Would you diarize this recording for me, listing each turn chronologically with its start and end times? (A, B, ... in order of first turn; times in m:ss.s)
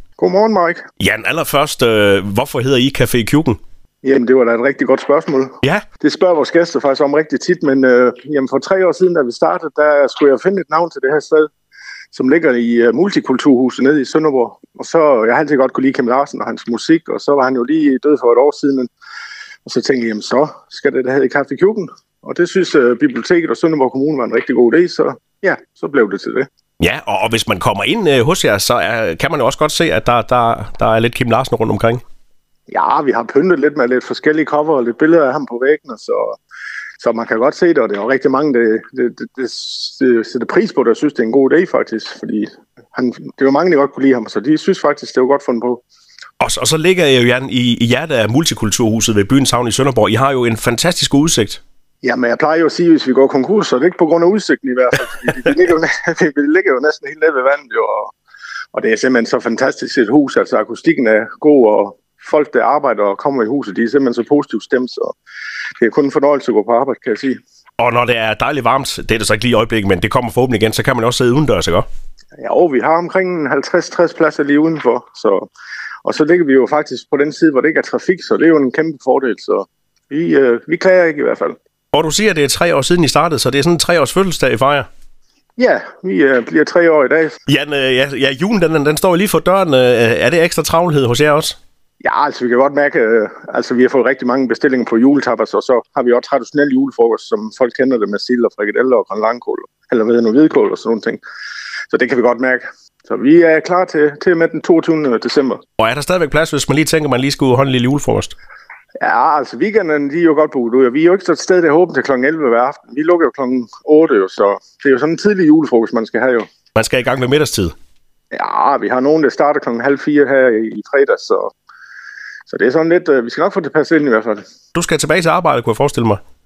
0:00.2-0:00.8 A
0:01.0-0:03.6 B
0:04.0-0:11.5 A
0:12.1-0:18.9 A
0:19.6-0:26.5 A
0:26.8-0:32.0 B
0:32.7-0:36.4 A
0:37.0-0:45.8 A
0:46.4-0:51.6 B
0:52.0-0:58.1 A
0:58.7-1:05.2 A
1:05.8-1:07.4 A
1:07.8-1:11.8 B
1:12.4-1:15.5 A
1:16.0-1:21.6 A
1:21.9-1:24.9 B
1:25.6-1:27.4 A
1:27.5-1:31.6 B
1:32.0-1:41.2 A
1:41.9-1:45.6 A
1:45.8-1:48.3 B
1:49.0-1:56.5 A
1:56.7-1:57.7 B
1:58.3-2:01.5 A
2:02.5-2:04.4 A
2:04.7-2:06.2 B